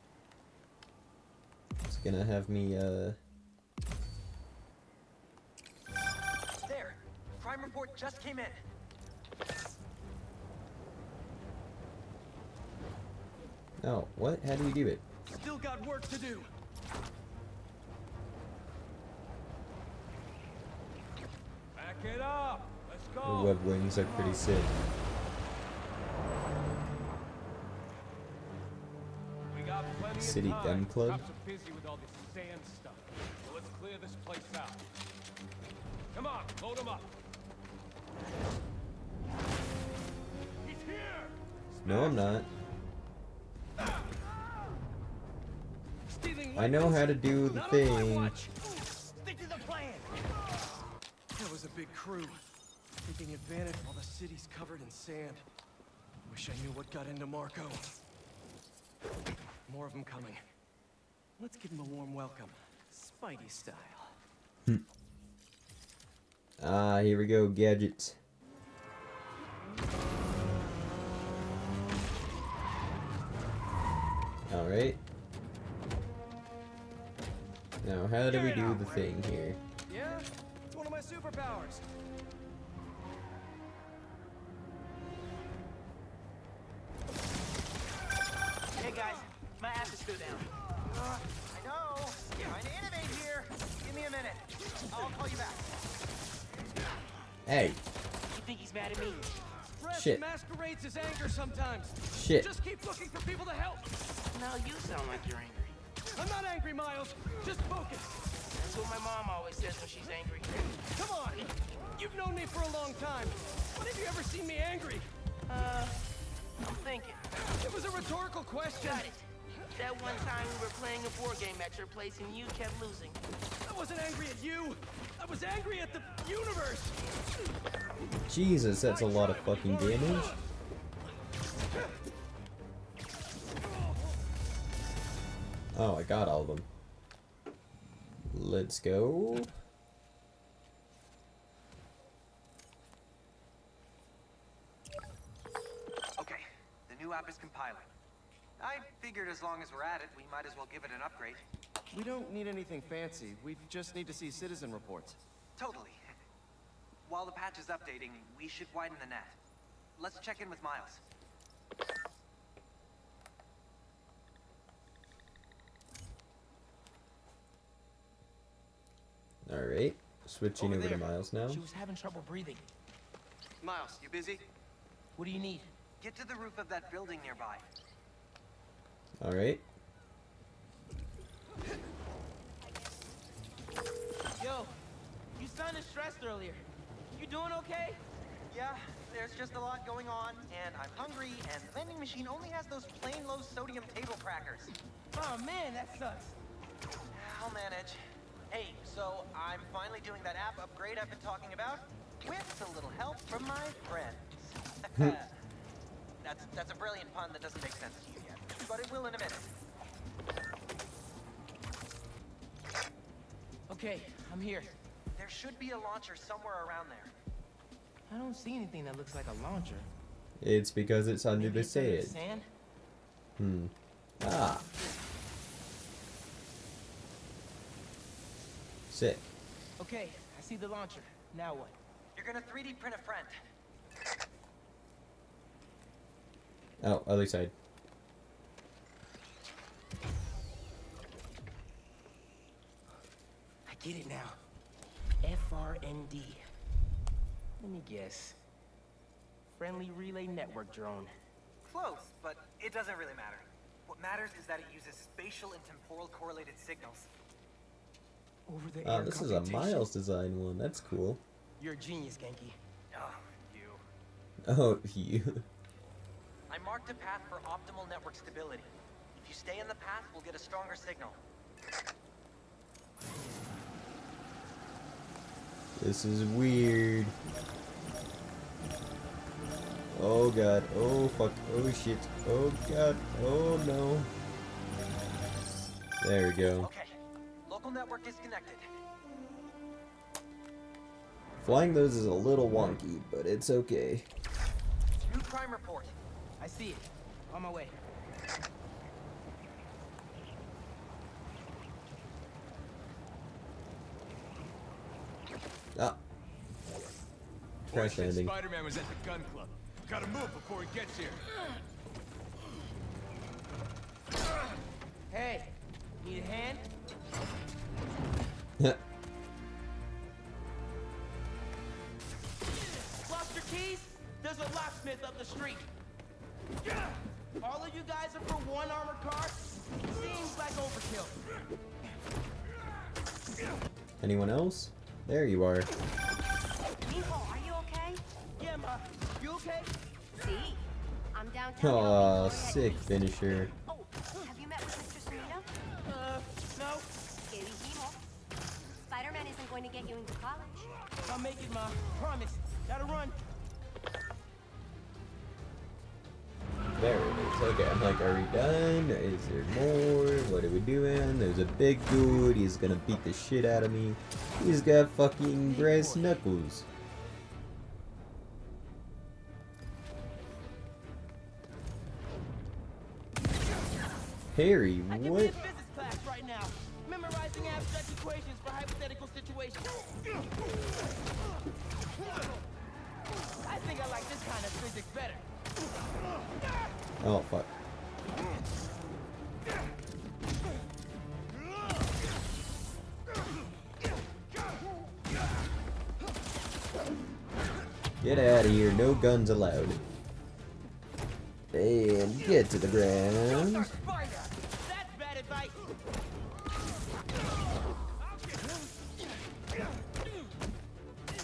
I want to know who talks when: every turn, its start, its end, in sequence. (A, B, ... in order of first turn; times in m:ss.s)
0:01.9-0:03.2 A
0:06.6-0:08.6 B
0:13.8-0:15.0 A
0:15.2-0:16.5 C
0:21.8-0:23.6 D
0:23.2-0:24.8 A
0:29.5-0:34.8 D
0:30.2-0:31.3 A
0:36.1-0:37.1 D
0:40.6-0:42.4 D
0:41.8-0:42.5 A
0:46.1-0:48.5 C
0:46.6-0:48.4 A
0:49.2-0:50.1 D
0:51.4-0:52.4 C
0:53.0-0:55.5 C
0:56.2-0:58.0 C
0:59.7-1:00.4 C
1:01.4-1:04.2 C
1:06.6-1:08.2 A
1:14.5-1:15.0 A
1:17.8-1:19.6 A
1:18.3-1:19.1 C
1:19.9-1:21.8 C
1:28.8-1:30.5 E
1:30.9-1:35.7 B
1:37.5-1:37.8 A
1:38.3-1:39.4 E
1:39.8-1:43.9 C
1:39.9-1:40.2 A
1:42.1-1:42.5 A
1:44.3-1:45.8 E
1:46.2-1:48.2 C
1:48.5-1:50.6 E
1:50.9-1:55.1 C
1:55.5-1:56.0 E
1:56.6-1:57.2 E
1:57.6-1:59.1 C
1:58.8-2:03.2 E
2:03.6-2:07.0 C
2:08.3-2:10.4 A
2:09.0-2:10.2 C
2:15.7-2:16.7 A
2:18.3-2:19.5 A
2:26.2-2:27.9 B
2:28.6-2:31.4 B
2:31.9-2:35.2 C
2:35.6-2:36.0 B
2:37.1-2:39.4 B
2:40.0-2:41.0 B
2:49.5-2:51.6 A
2:50.6-2:52.7 E
2:53.6-2:54.5 C
2:55.2-2:55.7 E
2:56.0-2:57.7 B
2:59.2-2:59.6 A
3:04.4-3:04.7 E
3:05.4-3:06.6 E
3:07.2-3:08.0 E
3:08.5-3:14.7 B
3:15.1-3:16.4 E
3:17.1-3:25.3 B
3:26.2-3:29.5 B
3:33.7-3:34.7 E
3:35.2-3:37.1 B
3:38.1-3:39.9 E
3:40.4-3:42.2 A
3:41.4-3:42.5 E
3:43.4-3:44.7 A
3:48.9-3:49.3 A
3:49.8-3:51.8 E
3:52.2-3:53.4 B
3:56.8-3:57.5 A
4:03.7-4:04.4 E
4:05.2-4:06.4 E
4:07.6-4:08.4 E
4:09.5-4:11.1 E
4:11.6-4:17.1 B
4:18.5-4:19.9 E
4:18.8-4:21.2 A
4:21.6-4:22.6 E
4:22.9-4:23.8 B
4:24.4-4:25.5 A
4:26.5-4:31.2 B
4:35.8-4:37.2 A
4:39.9-4:44.1 A
4:46.0-4:46.7 A
4:46.6-4:48.7 B
4:51.4-4:54.1 A
4:55.0-4:55.9 B
4:56.4-4:57.8 E
5:07.7-5:08.4 A
5:07.7-5:11.2 D
5:15.1-5:16.7 E
5:23.0-5:25.7 E
5:27.4-5:31.2 E
5:34.0-5:35.7 A
5:36.9-5:38.0 F
5:38.4-5:39.7 E
5:40.1-5:45.5 F
5:41.6-5:43.5 A
5:45.8-5:46.9 E
5:47.3-5:48.0 F
5:48.9-5:50.7 F
5:51.0-5:53.2 E
5:56.8-6:06.7 A
6:05.4-6:06.2 E
6:14.3-6:15.4 A
6:14.9-6:19.8 E
6:23.4-6:25.2 E
6:27.0-6:27.5 A
6:38.0-6:39.8 A
6:41.5-6:43.8 A
6:43.3-6:45.6 E